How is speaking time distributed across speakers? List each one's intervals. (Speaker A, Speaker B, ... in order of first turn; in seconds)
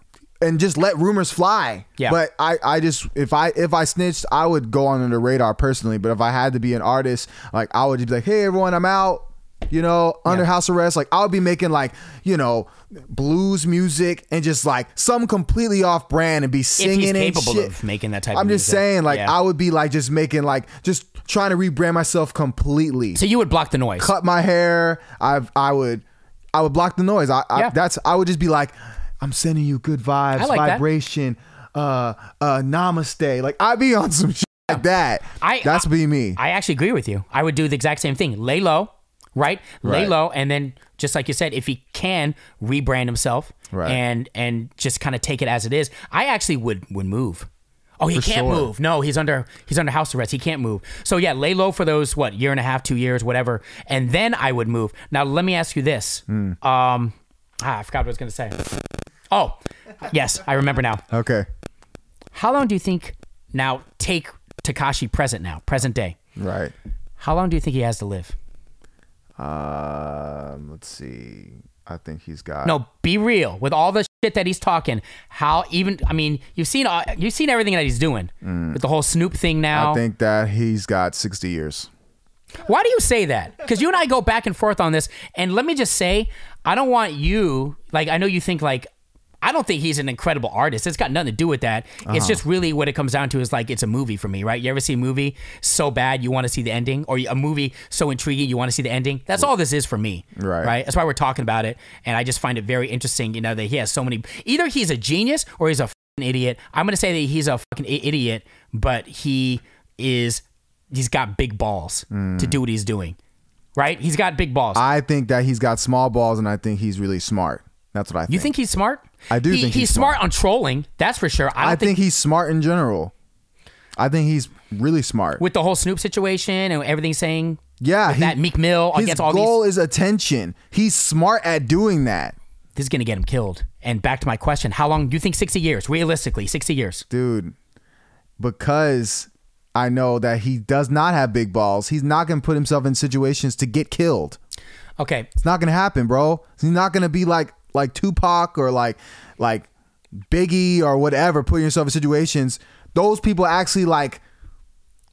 Speaker A: 0.4-17.7, 18.3-23.2, 24.0-36.4, 39.8-40.1, 43.7-44.0, 48.1-48.7, 56.3-56.6, 61.1-61.5, 66.3-66.7, 69.4-72.8, 78.4-78.8, 79.7-81.9, 92.0-92.4, 100.3-100.7, 112.1-112.6, 114.7-118.5, 119.3-120.2, 121.6-123.1, 124.0-125.4, 127.8-128.4, 128.9-132.3, 137.1-137.5, 138.4-144.4, 145.4-149.7, 150.2-154.2
Speaker B: 16.8-19.3, 23.1-24.1, 30.4-30.8, 35.4-47.5, 48.0-58.6, 59.3-61.0, 62.3-66.2, 67.2-68.3, 72.6-80.0, 82.6-88.9, 89.4-113.2, 113.8-114.8, 118.3-121.9, 125.4-129.6, 132.8-137.0, 145.0-145.3